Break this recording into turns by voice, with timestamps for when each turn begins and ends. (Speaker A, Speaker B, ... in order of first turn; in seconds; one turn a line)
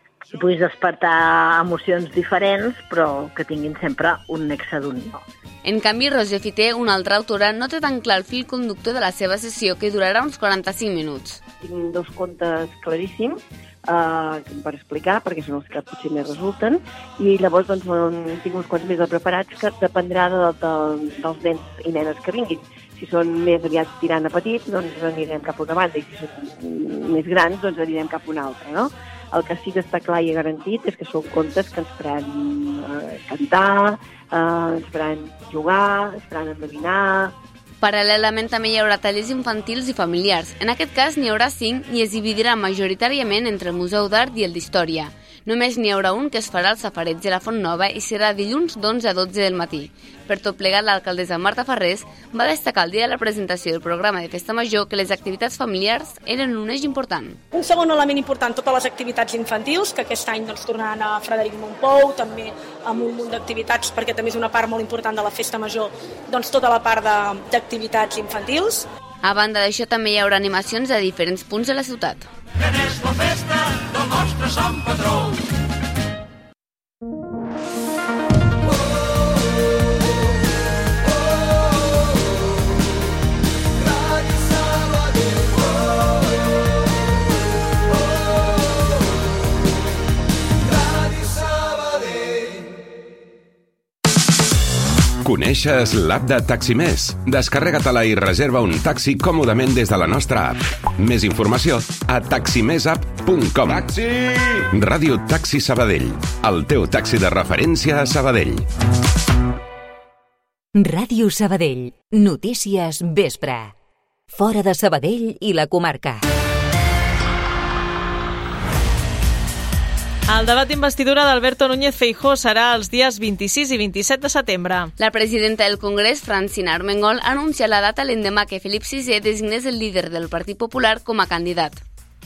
Speaker A: 0.3-5.2
Speaker B: 5.6-11.4
Speaker C: 11.6-37.3
Speaker B: 37.8-57.4
Speaker D: 57.5-68.9
Speaker B: 69.2-72.3
Speaker E: 95.2-108.7
Speaker F: 110.7-113.7
Speaker F: 114.3-116.2
Speaker G: 120.3-124.9
Speaker B: 125.0-131.8